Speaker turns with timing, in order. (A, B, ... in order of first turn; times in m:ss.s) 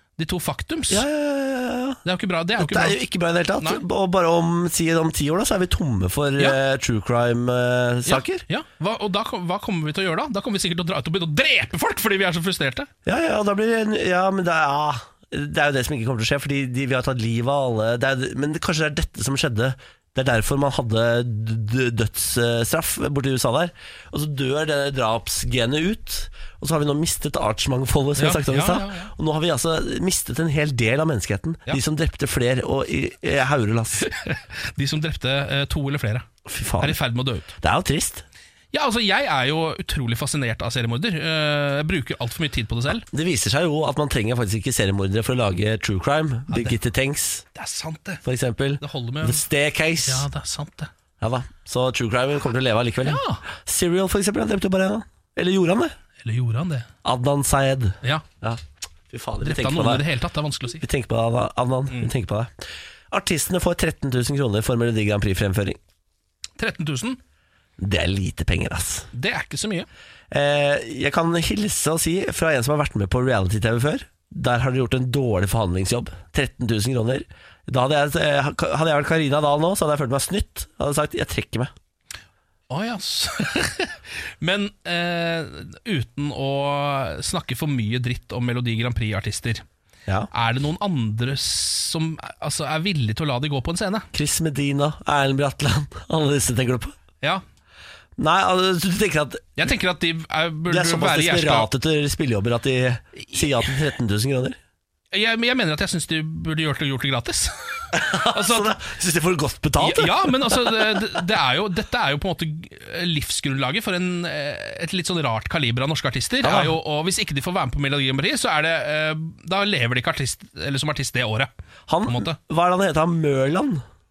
0:00.2-0:01.0 A
0:00.9-0:02.0 B
0:02.0-0:03.0 A
0:02.6-0:08.4 B
0:08.0-0:12.9 A
0:13.0-0:34.1 B
0:28.2-0:29.1 A
0:34.0-0:36.3 A
0:36.4-0:37.0 B
0:36.8-0:37.5 A
0:37.6-0:38.2 B
0:38.7-0:43.0 A
0:43.1-0:47.4 B
0:47.5-0:48.2 A
0:48.2-0:50.2 B
0:48.8-0:49.4 A
0:50.0-0:50.9 A
0:51.2-0:55.9 B
0:53.0-0:53.4 A
0:56.2-0:56.9 A
0:57.0-1:00.0 B
0:59.4-1:00.8 A
1:00.8-1:02.5 B
1:03.1-1:05.8 B
1:06.6-1:07.2 A
1:07.8-1:09.1 B
1:09.1-1:09.9 A
1:10.3-1:21.7 B
1:22.7-1:29.6 A
1:30.3-1:34.1 A
1:34.1-1:37.0 B
1:38.2-1:39.6 B
1:39.6-1:41.7 A
1:40.7-1:44.6 B
1:45.1-1:48.7 A
1:47.9-1:51.2 B
1:49.8-2:01.5 A
1:56.4-1:56.7 B
2:01.9-2:03.8 B
2:02.1-2:02.4 A